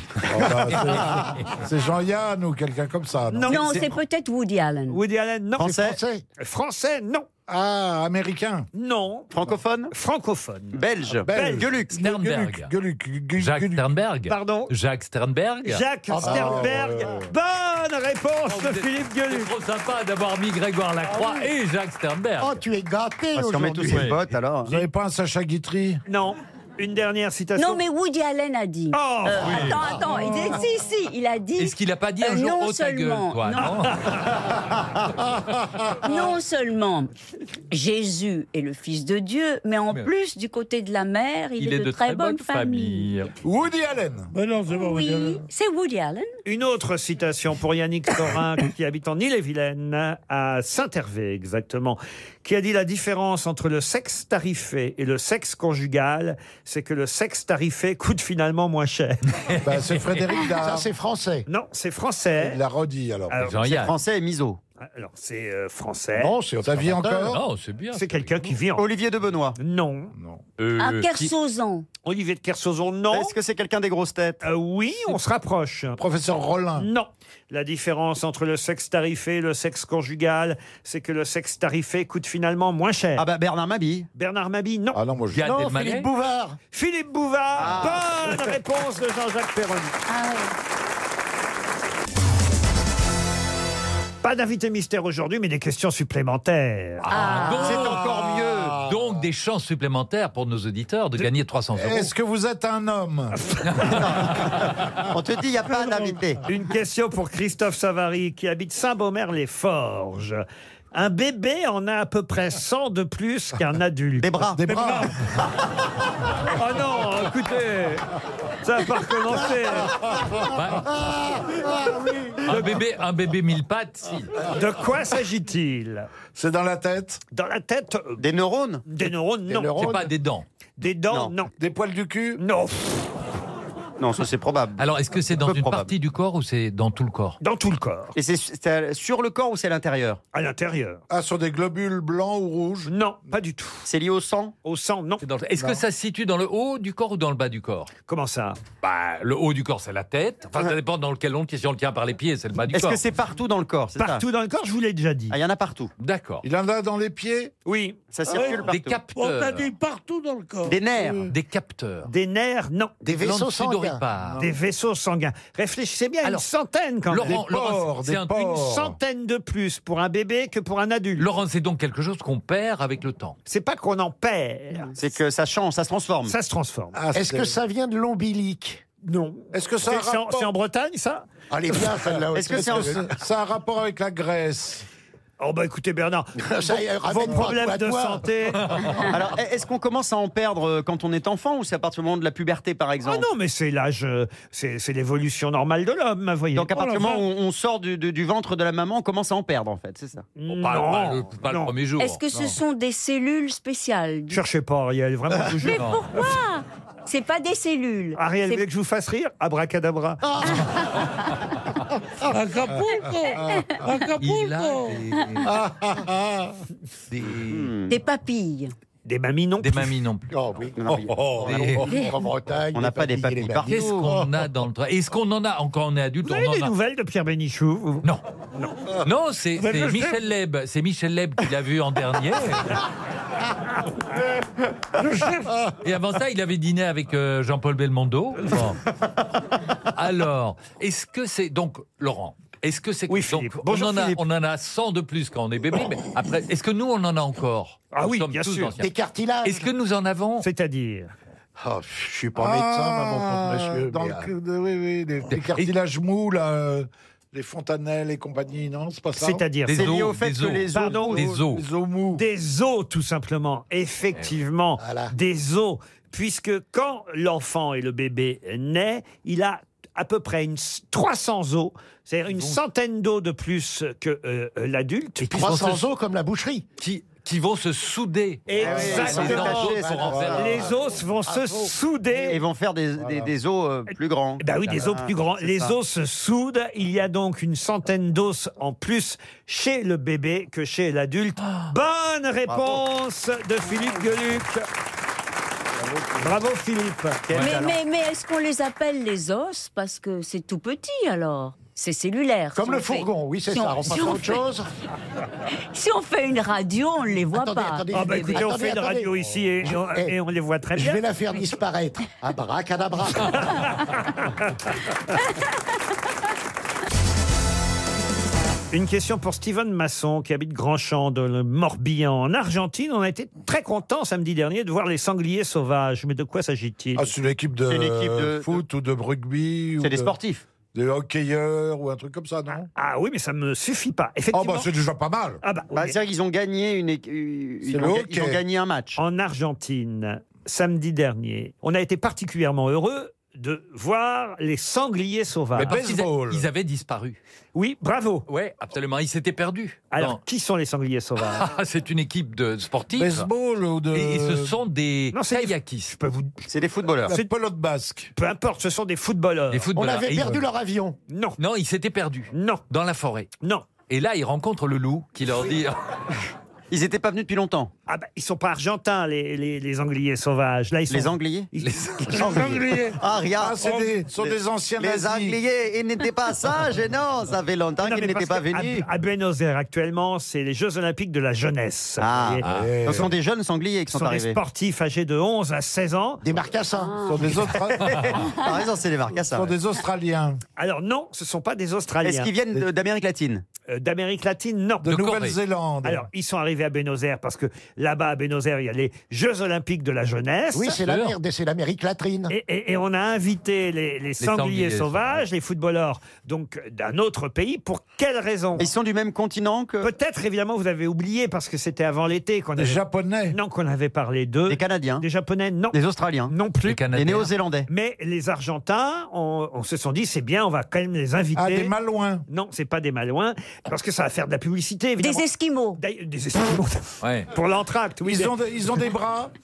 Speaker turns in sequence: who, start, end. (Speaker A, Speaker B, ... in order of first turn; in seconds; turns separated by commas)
Speaker A: 0.2-3.9, Speaker B: 3.3-3.9, Speaker C: 3.5-5.0, Speaker B: 4.9-7.3, Speaker D: 5.6-6.0, Speaker E: 5.6-6.2, Speaker A: 7.5-8.7, Speaker B: 8.7-9.3, Speaker D: 9.3-9.9, Speaker B: 9.9-11.7, Speaker D: 10.7-11.9, Speaker A: 11.1-13.9, Speaker F: 11.9-12.7, Speaker F: 13.4-15.8, Speaker B: 14.3-14.7, Speaker B: 15.6-19.5, Speaker E: 16.1-17.0, Speaker A: 16.1-17.3, Speaker F: 18.5-22.6, Speaker E: 22.4-24.1, Speaker D: 23.3-24.7, Speaker F: 23.9-24.2, Speaker A: 24.6-26.0, Speaker B: 26.1-27.8, Speaker C: 27.6-33.7, Speaker B: 28.9-30.0, Speaker F: 29.4-29.8, Speaker F: 31.6-34.0, Speaker B: 33.5-34.3, Speaker C: 36.0-37.1, Speaker C: 37.7-43.1, Speaker F: 41.6-43.3, Speaker A: 43.4-44.3, Speaker G: 44.3-45.4, Speaker C: 44.7-46.3, Speaker B: 46.4-59.3, Speaker F: 59.3-60.2, Speaker A: 59.6-60.9, Speaker E: 60.6-61.5, Speaker B: 61.5-62.6, Speaker A: 62.4-63.5, Speaker B: 63.3-63.7, Speaker F: 63.3-64.0, Speaker D: 63.6-64.6, Speaker B: 64.8-66.3, Speaker E: 66.2-67.3, Speaker A: 66.6-67.4, Speaker F: 67.2-68.6, Speaker B: 67.9-68.9, Speaker D: 68.8-69.6, Speaker B: 69.6-70.1, Speaker A: 70.1-70.4, Speaker F: 70.6-71.3, Speaker C: 70.8-71.9, Speaker B: 72.0-73.3, Speaker D: 73.1-74.4, Speaker B: 74.4-76.0, Speaker A: 76.0-76.9, Speaker B: 76.8-83.3, Speaker D: 83.2-84.1, Speaker B: 84.2-85.0, Speaker A: 84.9-85.5, Speaker F: 85.3-86.1, Speaker E: 85.4-86.6, Speaker B: 86.7-90.0, Speaker D: 87.5-88.5, Speaker C: 90.1-90.5, Speaker B: 94.2-97.6, Speaker F: 97.0-98.0, Speaker C: 97.1-97.7, Speaker D: 97.6-98.8, Speaker A: 97.7-99.1, Speaker F: 98.8-102.1, Speaker A: 101.7-103.4, Speaker D: 103.8-106.4, Speaker G: 105.7-106.2, Speaker B: 106.5-114.4, Speaker D: 114.2-115.0, Speaker A: 114.6-115.1, Speaker G: 114.7-115.2, Speaker B: 116.5-120.1, Speaker F: 120.5-121.0, Speaker E: 121.3-122.4, Speaker F: 122.4-124.4, Speaker B: 124.5-126.1, Speaker A: 126.3-127.2, Speaker B: 127.3-128.2, Speaker D: 128.2-128.8, Speaker B: 128.8-129.9, Speaker E: 129.5-130.1, Speaker F: 129.8-130.4, Speaker B: 130.8-131.5, Speaker A: 131.6-132.4, Speaker B: 132.4-133.0, Speaker D: 134.0-135.9, Speaker F: 134.8-137.4, Speaker B: 137.4-138.1, Speaker D: 138.1-140.2, Speaker B: 140.3-141.0, Speaker A: 141.1-142.9, Speaker B: 142.8-143.9, Speaker D: 143.8-144.5, Speaker B: 144.6-145.2, Speaker F: 145.2-147.9, Speaker A: 145.6-145.8, Speaker B: 148.1-148.6, Speaker F: 148.8-153.0, Speaker D: 152.7-154.2, Speaker B: 153.9-155.4, Speaker D: 155.3-155.9, Speaker F: 156.0-156.4, Speaker A: 156.4-157.5, Speaker B: 157.6-158.0, Speaker D: 158.1-159.0, Speaker G: 158.3-160.8, Speaker F: 158.6-159.7, Speaker D: 160.7-161.3, Speaker F: 161.2-162.1, Speaker B: 162.1-163.0, Speaker E: 163.0-164.0, Speaker F: 163.1-164.4, Speaker A: 164.2-164.5, Speaker B: 164.4-167.4, Speaker F: 167.1-168.4, Speaker A: 167.2-169.0, Speaker B: 168.3-171.3, Speaker F: 171.2-173.3, Speaker B: 173.5-174.9, Speaker D: 174.9-176.3, Speaker B: 176.3-177.0, Speaker A: 176.9-177.6, Speaker E: 177.1-178.8, Speaker B: 179.0-181.2, Speaker A: 179.5-180.5, Speaker E: 181.5-183.1, Speaker A: 181.9-184.8, Speaker D: 182.3-183.0, Speaker B: 185.4-188.7, Speaker E: 186.4-188.3, Speaker F: 188.7-189.0, Speaker D: 189.1-193.3, Speaker B: 193.0-197.1, Speaker D: 196.6-200.3, Speaker G: 196.8-197.2, Speaker B: 200.3-201.7, Speaker F: 200.5-202.2, Speaker C: 202.0-204.4, Speaker B: 204.3-205.9, Speaker C: 205.6-208.7, Speaker F: 205.6-206.1, Speaker B: 208.2-210.6, Speaker E: 210.3-210.6, Speaker G: 212.2-215.0, Speaker C: 213.0-213.8, Speaker F: 214.2-215.5, Speaker A: 215.6-216.5, Speaker F: 217.1-217.7, Speaker D: 217.5-218.0, Speaker C: 217.9-218.7, Speaker B: 219.0-219.9, Speaker F: 219.6-220.3, Speaker E: 220.3-223.8, Speaker D: 220.8-221.7, Speaker A: 220.9-221.8, Speaker F: 221.4-222.0, Speaker D: 222.7-224.2, Speaker F: 223.7-226.7, Speaker B: 226.2-228.1, Speaker F: 229.0-232.8, Speaker G: 229.6-230.2, Speaker G: 235.0-235.6, Speaker F: 235.8-238.8, Speaker F: 239.9-248.9, Speaker B: 243.1-244.2, Speaker B: 247.9-248.7, Speaker E: 248.8-249.6, Speaker F: 249.4-250.5, Speaker B: 250.4-251.1, Speaker E: 251.6-254.3, Speaker A: 252.3-259.5, Speaker F: 255.3-255.7, Speaker B: 259.2-259.9, Speaker F: 259.6-261.6, Speaker D: 259.7-261.2, Speaker B: 260.7-261.2, Speaker A: 260.9-262.2, Speaker B: 262.1-275.8, Speaker E: 264.8-265.1, Speaker F: 272.3-272.6, Speaker E: 275.2-276.6, Speaker F: 276.8-280.4, Speaker B: 278.5-282.4, Speaker D: 278.6-280.7, Speaker A: 278.6-279.5, Speaker E: 278.8-281.7, Speaker A: 280.0-280.4, Speaker D: 282.1-285.1, Speaker A: 283.0-283.3, Speaker B: 284.4-294.7, Speaker F: 284.7-285.7, Speaker D: 292.5-292.8, Speaker B: 296.2-297.2, Speaker D: 297.3-297.8, Speaker F: 297.3-297.6, Speaker C: 297.3-304.4, Speaker E: 302.5-304.7, Speaker C: 305.7-308.4, Speaker E: 307.3-309.1, Speaker B: 307.9-311.0, Speaker E: 309.6-310.1, Speaker E: 310.7-313.5, Speaker B: 313.6-314.2, Speaker B: 318.7-327.1, Speaker A: 326.9-330.1, Speaker D: 327.6-328.6, Speaker D: 329.8-330.4, Speaker A: 330.7-332.7, Speaker B: 332.8-334.7, Speaker A: 334.3-335.4, Speaker B: 335.4-335.9, Speaker D: 335.7-339.0, Speaker A: 337.6-338.4, Speaker B: 339.0-345.8, Speaker F: 345.5-347.2, Speaker A: 345.6-346.4, Speaker B: 347.5-348.3, Speaker F: 348.3-350.2, Speaker B: 349.9-351.5, Speaker F: 351.2-353.3, Speaker A: 352.9-354.6, Speaker F: 353.9-355.9, Speaker B: 355.1-356.4, Speaker D: 356.5-357.1, Speaker A: 357.1-358.1, Speaker B: 358.1-359.7, Speaker F: 359.5-360.4, Speaker E: 359.7-361.0, Speaker A: 360.1-360.4, Speaker B: 361.1-361.4, Speaker F: 361.4-363.3, Speaker B: 362.3-362.6, Speaker B: 363.4-363.7, Speaker F: 363.9-365.8, Speaker D: 366.7-367.7, Speaker B: 367.9-372.6, Speaker D: 370.9-371.5, Speaker F: 371.6-372.3, Speaker D: 372.1-378.8, Speaker G: 372.1-373.0, Speaker A: 373.4-375.4, Speaker B: 377.8-382.4, Speaker D: 382.0-384.4, Speaker A: 382.4-383.1, Speaker F: 382.5-383.0, Speaker B: 383.9-386.2, Speaker E: 386.2-387.1, Speaker C: 386.8-387.2, Speaker A: 387.0-388.2, Speaker D: 387.8-389.5, Speaker F: 387.9-388.2, Speaker A: 389.3-390.4, Speaker B: 390.6-392.3, Speaker D: 392.0-393.4, Speaker B: 393.7-394.9, Speaker A: 394.8-396.1, Speaker F: 394.8-395.4, Speaker B: 395.8-400.8, Speaker E: 400.5-402.3, Speaker F: 400.8-401.2, Speaker B: 402.3-408.7, Speaker F: 404.2-405.2, Speaker D: 408.6-409.9, Speaker B: 409.8-416.8, Speaker A: 412.6-413.4, Speaker D: 414.5-415.0, Speaker D: 415.7-416.3, Speaker F: 416.6-417.3, Speaker D: 416.9-417.7, Speaker B: 417.7-421.7, Speaker A: 421.3-422.2, Speaker B: 422.3-425.2, Speaker C: 425.0-425.8, Speaker B: 425.8-428.3, Speaker F: 427.0-427.3, Speaker A: 428.0-429.3